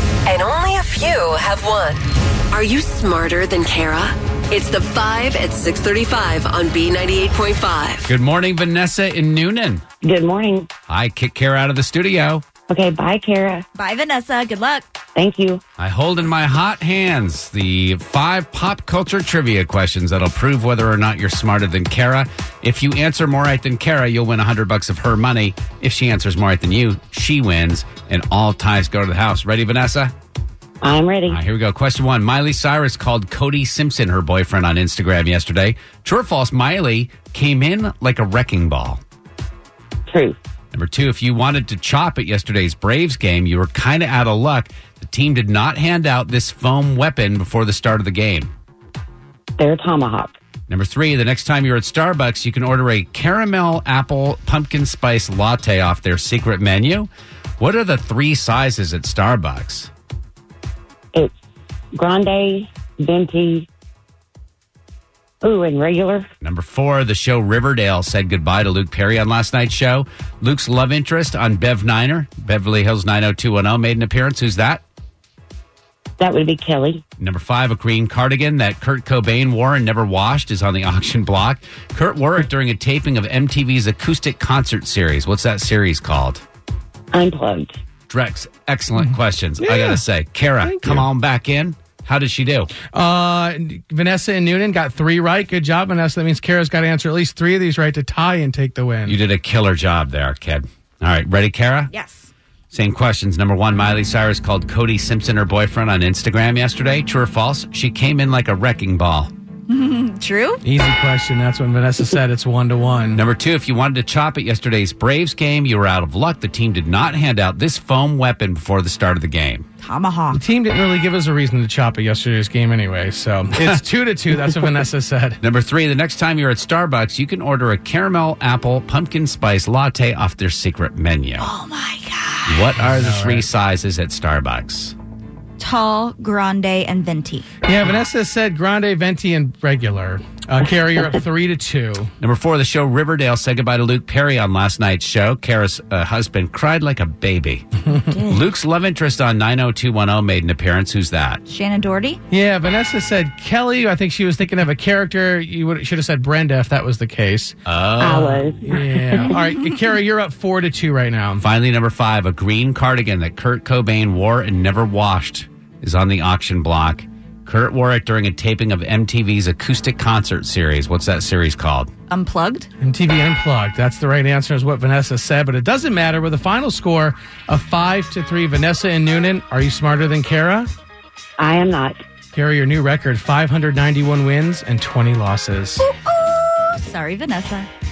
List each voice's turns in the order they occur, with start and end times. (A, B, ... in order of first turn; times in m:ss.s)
0:00.2-0:08.1 A
0:08.1-0:09.8 B
0:10.0-0:10.7 C
0:10.9-0:12.4 B
0:12.7-0:13.7 C
0:13.8-0:14.8 D
0:15.2-0:15.6 C
0:15.8-0:30.1 B
0:30.8-0:31.4 C
0:31.3-0:39.0 B
0:40.1-0:40.4 C
0:40.7-0:48.5 B
0:49.6-0:50.4 C
0:50.7-0:59.9 B
1:01.9-1:03.7 C
1:05.4-1:06.3 C
1:06.4-1:14.8 B
1:16.2-1:17.0 C
1:17.2-1:26.4 B
1:27.1-1:27.8 C
1:28.1-1:32.7 B
1:29.6-1:30.0 E
1:30.6-1:31.1 E
1:32.9-1:39.2 E
1:39.0-1:41.9 B
1:41.9-1:42.3 D
1:42.7-1:49.3 B
1:49.7-1:50.6 D
1:50.6-1:53.2 E
1:53.2-1:59.7 B
1:59.8-2:00.4 D
2:00.3-2:05.4 E
2:05.4-2:11.5 B
2:11.4-2:12.8 D
2:12.5-2:15.0 B
2:12.9-2:13.4 E
2:15.6-2:17.5 D
2:17.6-2:22.1 E
2:22.2-2:27.7 B
2:27.9-2:28.5 D
2:28.3-2:31.4 B
2:31.5-2:32.2 D
2:32.3-2:41.4 E
2:37.7-2:38.3 B
2:38.0-2:39.4 C
2:41.4-2:51.9 B
2:52.1-2:52.7 D
2:52.8-3:00.7 E
3:01.4-3:02.0 C
3:02.3-3:05.9 E
3:05.8-3:07.7 D